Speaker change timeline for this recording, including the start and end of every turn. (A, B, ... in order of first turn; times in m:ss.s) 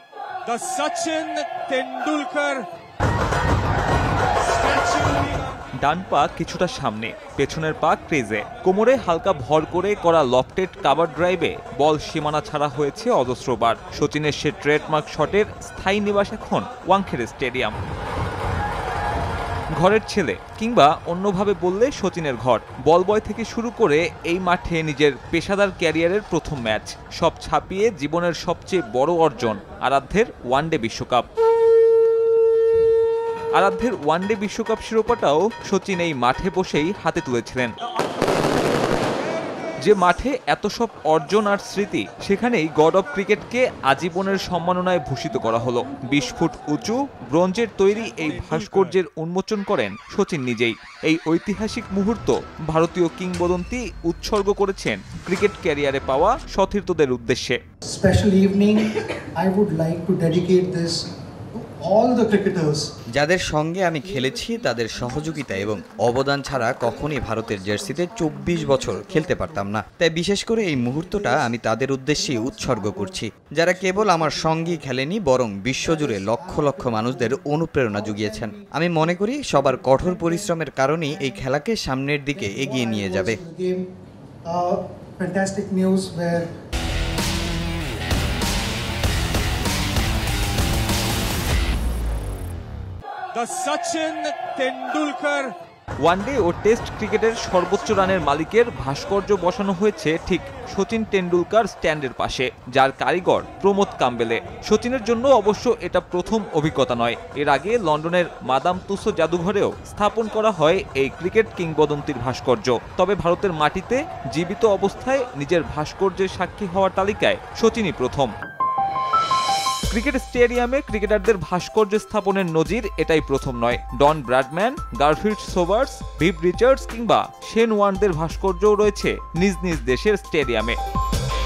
0:00.4-0:02.6 A
0:04.5-0:05.4 A
0:05.8-0:17.7 B
0:19.8-0:31.2 B
0:33.6-0:37.7 B
0:39.8-0:57.6 B
0:48.0-0:49.0 A
0:57.9-1:01.0 C
1:01.6-1:02.9 C
1:03.1-1:23.4 D
1:04.0-1:09.8 C
1:10.6-1:14.9 C
1:15.7-1:20.5 C
1:21.0-1:21.5 C
1:22.3-1:23.8 C
1:24.4-1:26.5 C
1:33.3-1:35.5 A
1:36.0-1:58.3 B
1:59.9-2:10.8 B